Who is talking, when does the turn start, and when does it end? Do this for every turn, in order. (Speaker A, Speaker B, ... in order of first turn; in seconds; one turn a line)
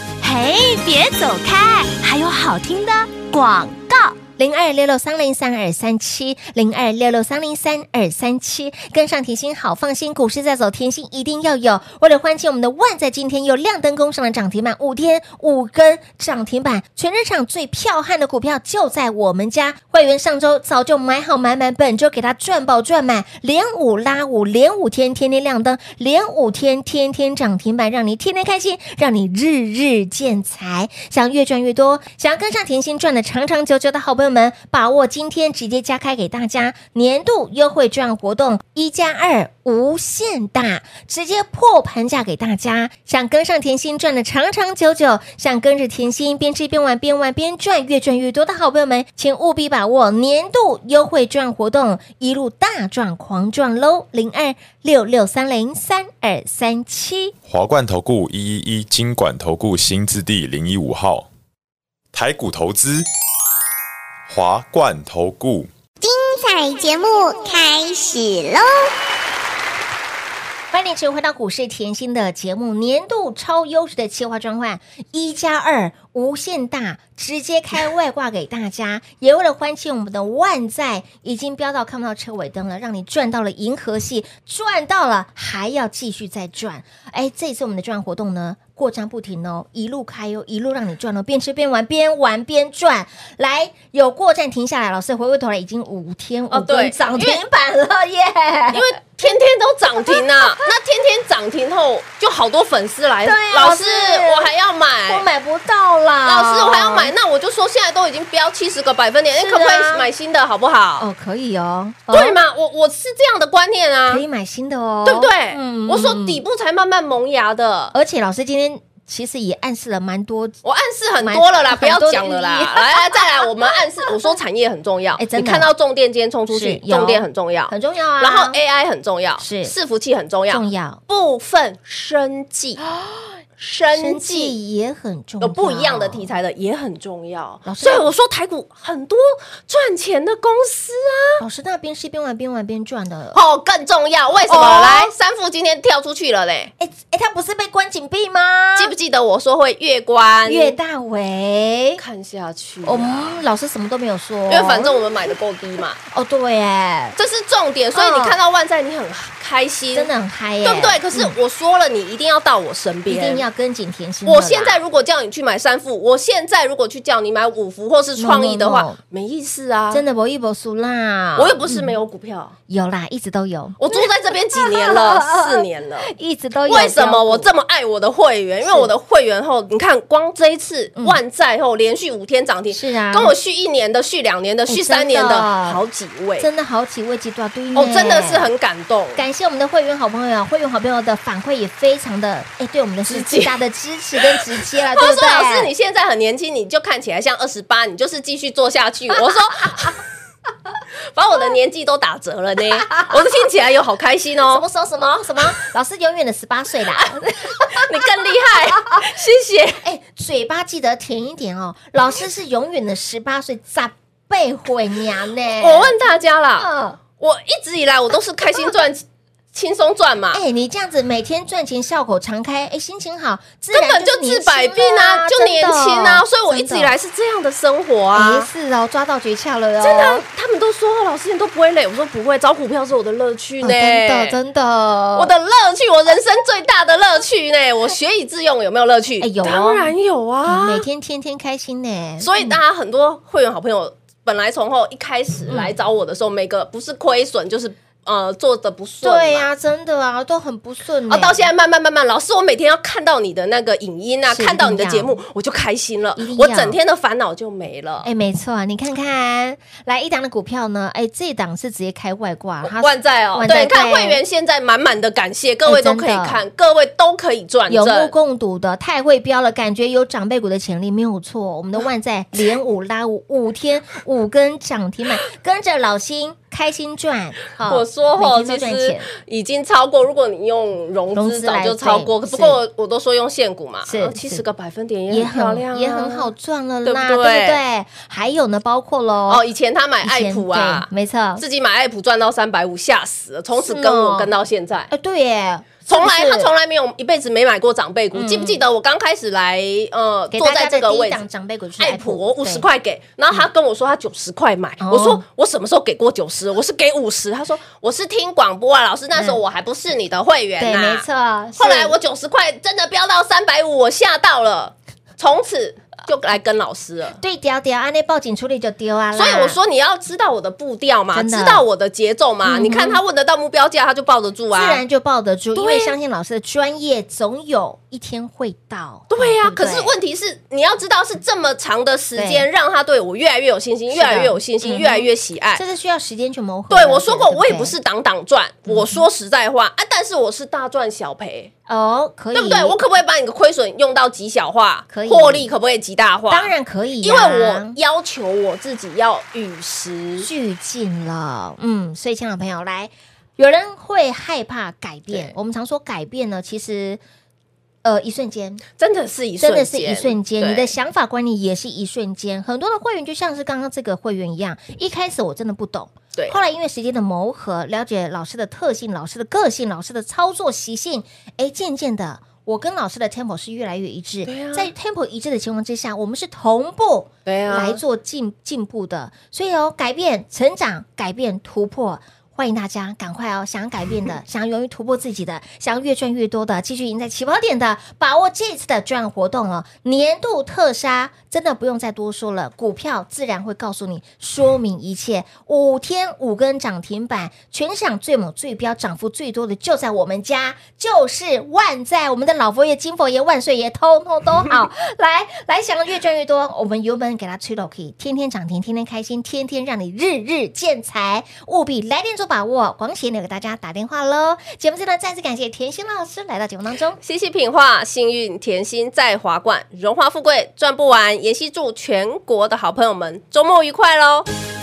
Speaker A: 0.2-4.2
Speaker B: 4.4-57.3
Speaker C: 57.5-61.3
Speaker C: 62.1-63.1
Speaker C: 64.3-65.7
Speaker D: 66.0-68.9
Speaker B: 70.7-98.9
Speaker E: 96.5-97.4
Speaker E: 98.7-105.2
Speaker B: 100.0-100.6
Speaker B: 103.2-104.5
Speaker B: 105.1-107.1
Speaker E: 106.2-111.1
Speaker B: 109.3-110.1
Speaker B: 111.0-112.4
Speaker E: 112.1-114.2
Speaker B: 114.1-116.4
Speaker E: 115.0-117.9
Speaker B: 117.9-120.6
Speaker E: 120.6-132.8
Speaker B: 121.2-123.5
Speaker B: 125.2-125.7
Speaker B: 126.5-128.6
Speaker B: 129.4-129.8
Speaker B: 130.5-131.0
Speaker E: 133.6-134.6
Speaker B: 133.9-136.3
Speaker E: 135.4-141.4
Speaker B: 137.6-138.1
Speaker B: 141.4-143.4
Speaker E: 143.3-146.7
Speaker B: 144.4-145.1
Speaker B: 146.8-148.9
Speaker E: 148.8-150.8
Speaker B: 150.5-152.0
Speaker E: 152.0-153.4
Speaker B: 152.8-155.1
Speaker E: 154.5-156.0
Speaker B: 156.1-157.2
Speaker E: 157.2-160.1
Speaker B: 157.9-158.4
Speaker B: 159.9-161.3
Speaker E: 160.6-163.4
Speaker B: 163.1-164.8
Speaker E: 164.2-170.0
Speaker B: 168.2-169.0
Speaker B: 169.9-171.9
Speaker E: 171.4-172.5
Speaker B: 172.7-174.0
Speaker E: 173.8-176.1
Speaker B: 174.5-177.5
Speaker E: 176.7-186.5
Speaker B: 178.6-178.9
Speaker B: 182.7-183.3
Speaker B: 184.7-185.8
Speaker B: 186.4-188.5
Speaker E: 187.8-189.2
Speaker B: 189.2-195.7
Speaker E: 193.1-193.6
Speaker E: 194.4-199.9
Speaker E: 201.1-204.7
Speaker B: 202.9-203.2
Speaker B: 204.5-208.0
Speaker E: 207.5-209.8
Speaker B: 209.8-216.0
Speaker E: 215.6-220.4
Speaker B: 216.6-217.0
Speaker B: 220.3-226.9
Speaker E: 223.7-228.5
Speaker B: 228.1-230.2
Speaker E: 229.8-234.4
Speaker B: 233.6-235.3
Speaker E: 235.2-240.8
Speaker B: 239.2-242.6
Speaker E: 242.2-249.5
Speaker B: 249.0-251.5
Speaker E: 251.1-258.1
Speaker B: 254.3-255.2
Speaker B: 256.2-256.8
Speaker B: 258.0-264.2
Speaker E: 262.6-268.1
Speaker B: 265.7-266.4
Speaker B: 267.7-279.1
Speaker E: 277.7-286.3
Speaker B: 281.1-282.6
Speaker B: 283.9-284.4
Speaker B: 285.1-289.4
Speaker E: 286.8-287.6
Speaker E: 289.3-294.9
Speaker B: 290.0-291.4
Speaker B: 293.6-294.3
Speaker B: 294.9-296.5
Speaker E: 295.9-301.2
Speaker B: 298.1-298.6
Speaker B: 300.3-302.6
Speaker E: 301.8-311.0
Speaker B: 304.8-305.2
Speaker B: 309.1-309.4
Speaker B: 310.6-312.0
Speaker E: 311.6-317.2
Speaker B: 317.2-319.6
Speaker E: 319.1-324.8
Speaker B: 321.1-321.6
Speaker B: 322.4-323.0
Speaker B: 324.5-329.9
Speaker E: 325.6-325.9
Speaker E: 329.1-335.6
Speaker B: 332.2-332.5
Speaker B: 333.9-337.8
Speaker E: 336.7-341.5
Speaker B: 338.7-339.0
Speaker B: 341.7-342.8
Speaker E: 342.3-350.3
Speaker B: 344.9-345.5
Speaker B: 346.3-347.8
Speaker B: 350.2-357.0
Speaker B: 357.8-358.6
Speaker E: 358.8-360.7
Speaker B: 359.4-417.0
Speaker E: 374.2-374.7
Speaker E: 377.2-377.8
Speaker E: 417.0-424.3